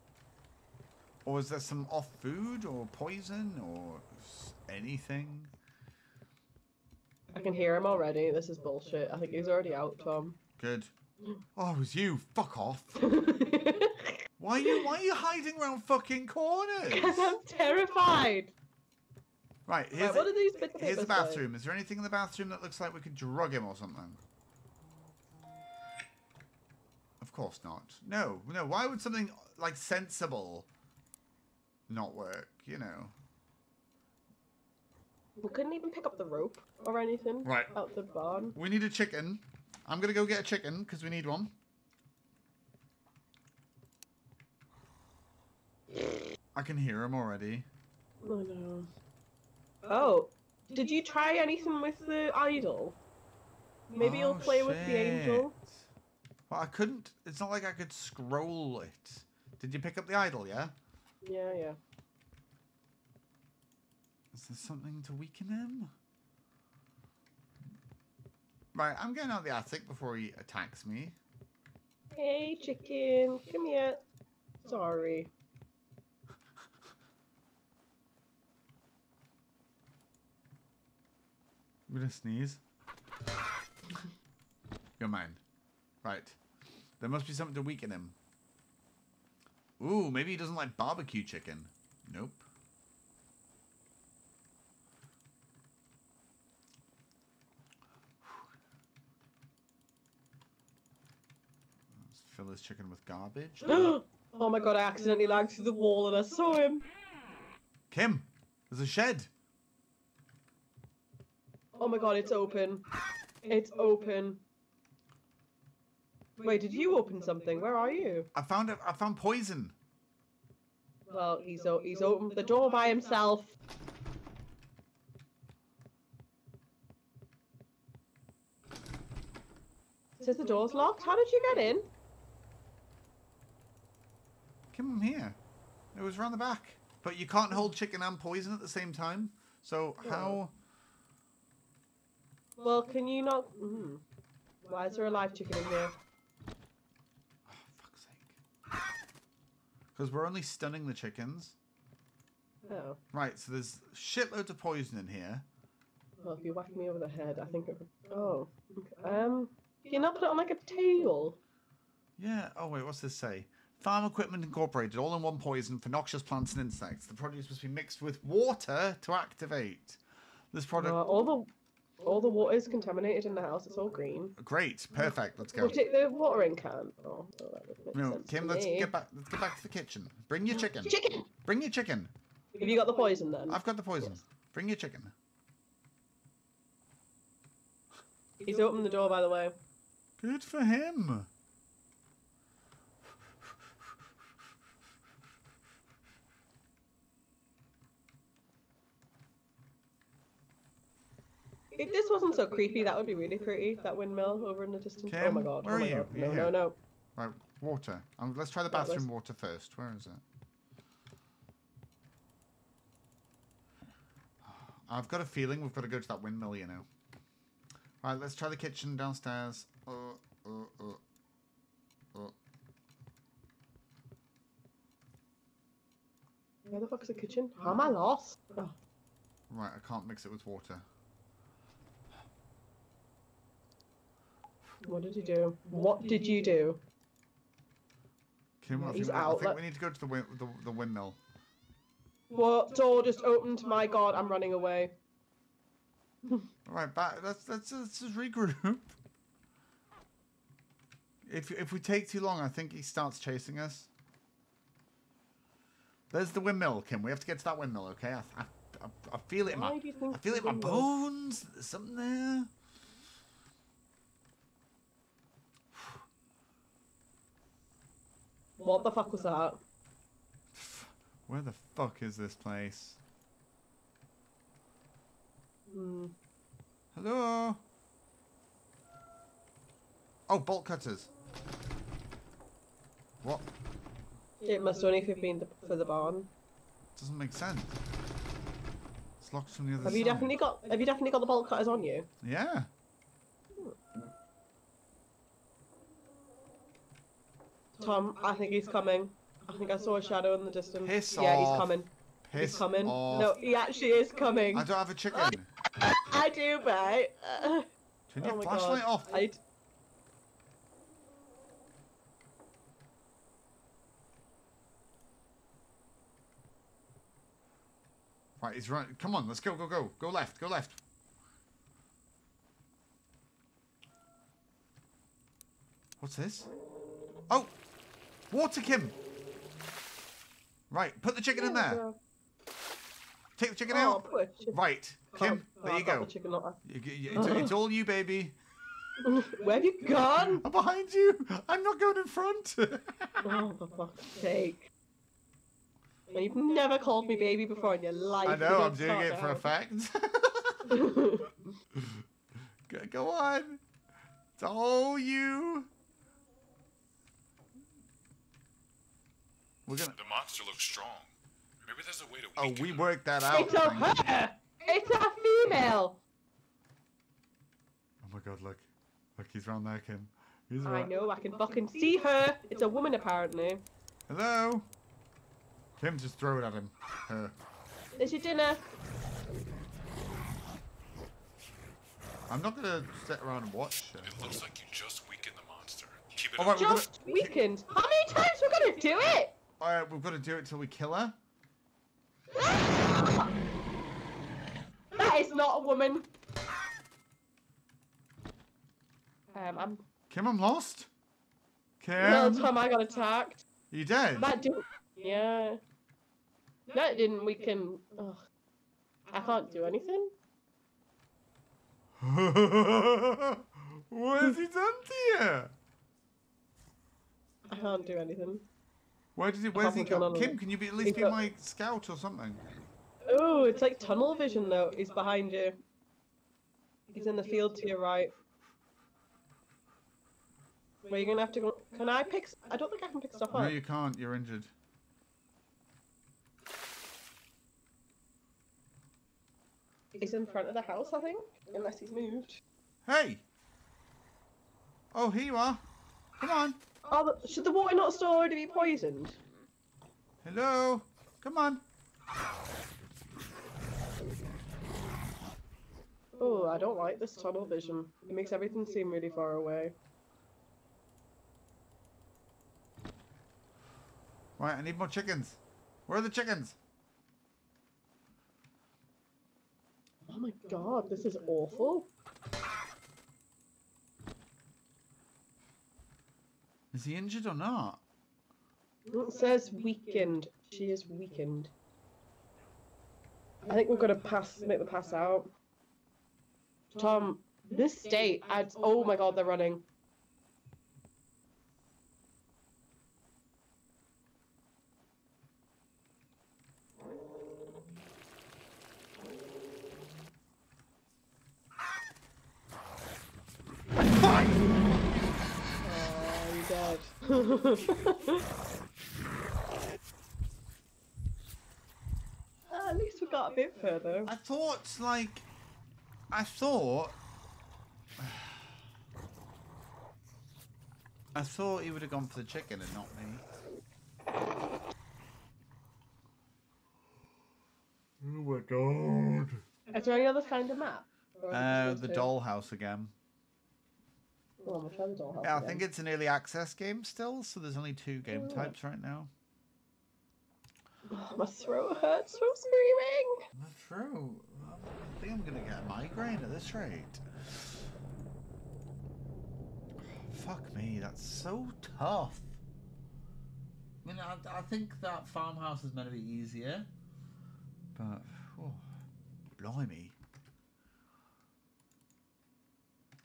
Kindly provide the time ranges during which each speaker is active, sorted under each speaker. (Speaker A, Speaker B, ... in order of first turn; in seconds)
Speaker A: 1.2-5.5, 10.6-10.9, 11.6-13.1, 14.4-17.4, 19.7-24.2, 27.2-30.7, 31.9-33.1, 37.4-37.7, 38.5-41.5, 46.5-47.7, 54.0-55.9, 56.5-60.8, 64.3-65.9, 68.7-71.2, 81.9-82.6, 85.0-85.4, 86.0-86.4, 87.0-88.2, 89.8-92.5, 101.9-104.0, 107.9-109.3, 118.3-119.8, 134.7-135.4, 135.9-140.5, 147.5-148.3, 149.9-151.6, 153.1-155.5, 162.2-170.0, 170.5-171.0, 174.4-175.8, 177.9-182.1, 183.5-185.1, 190.2-191.3, 205.1-206.6, 207.2-210.2, 214.4-216.9, 218.0-221.0, 229.5-230.8, 238.6-241.2, 246.7-249.0, 251.2-253.9, 256.1-262.5, 270.5-273.0, 276.9-277.6, 280.3-281.1, 283.2-283.5, 287.0-287.8, 289.2-290.4, 292.2-292.7, 300.8-303.4, 304.5-305.5, 308.1-309.3, 318.4-320.8, 326.0-326.5, 327.3-327.5, 328.3-329.0, 330.7-331.8, 333.4-336.1, 336.6-338.4, 340.4-343.4, 348.2-350.9, 351.7-352.1, 352.7-353.6, 354.4-355.7, 359.7-360.0, 362.4-363.9, 368.0-370.9, 374.1-374.7, 375.8-377.4, 382.3-384.4, 386.4-387.3, 389.6-391.2, 400.1-400.9, 401.8-402.5, 403.7-404.3, 412.0-415.5, 419.2-422.4, 433.3-434.5, 442.9-443.2, 444.9-445.6, 446.2-446.6, 450.2-451.6, 464.4-466.6, 476.7-477.8, 503.8-504.7, 514.1-515.3, 516.1-517.0, 518.0-518.5, 521.1-523.2, 528.0-529.4, 531.3-532.9, 535.2-539.1, 543.3-547.5, 549.9-552.4, 553.8-556.7, 557.8-558.7, 559.4-560.0
Speaker B: 7.3-10.4, 13.0-14.9, 16.9-18.5, 20.0-21.4, 35.4-38.6, 48.2-48.9, 49.9-53.0, 53.9-55.5, 61.2-61.8, 72.1-74.0, 74.6-75.3, 103.7-106.8, 111.7-112.8, 113.4-114.4, 116.4-118.3, 121.1-123.5, 130.2-131.9, 140.0-140.4, 142.6-144.0, 144.7-146.0, 152.7-153.0, 156.2-161.4, 170.8-174.3, 175.0-178.9, 180.6-181.3, 182.5-184.1, 188.4-189.6, 201.7-206.8, 208.7-209.1, 226.7-228.8, 234.8-236.8, 238.7-239.6, 242.3-244.9, 259.5-260.9, 268.6-269.6, 275.7-276.1, 284.4-286.3, 289.8-292.1, 297.8-307.7, 308.2-309.4, 331.3-332.0, 333.7-334.6, 335.1-336.6, 337.1-337.5, 339.0-340.4, 343.2-344.7, 346.1-349.5, 350.7-351.4, 363.3-366.0, 370.6-373.6, 377.9-378.7, 386.5-389.4, 392.3-393.3, 394.9-396.1, 399.3-399.8, 402.0-403.4, 404.2-405.6, 406.7-408.2, 409.1-410.1, 417.5-418.5, 419.6-421.2, 423.0-425.6, 426.9-428.1, 430.9-433.6, 439.9-442.4, 446.9-449.2, 456.1-459.8, 470.1-471.9, 478.9-481.5, 483.4-485.3, 486.7-489.6, 505.6-508.2, 512.5-514.1, 529.7-532.1, 534.4-535.6, 538.1-538.5, 540.9-543.2
Speaker C: 359.9-361.1, 361.6-362.9, 384.0-386.8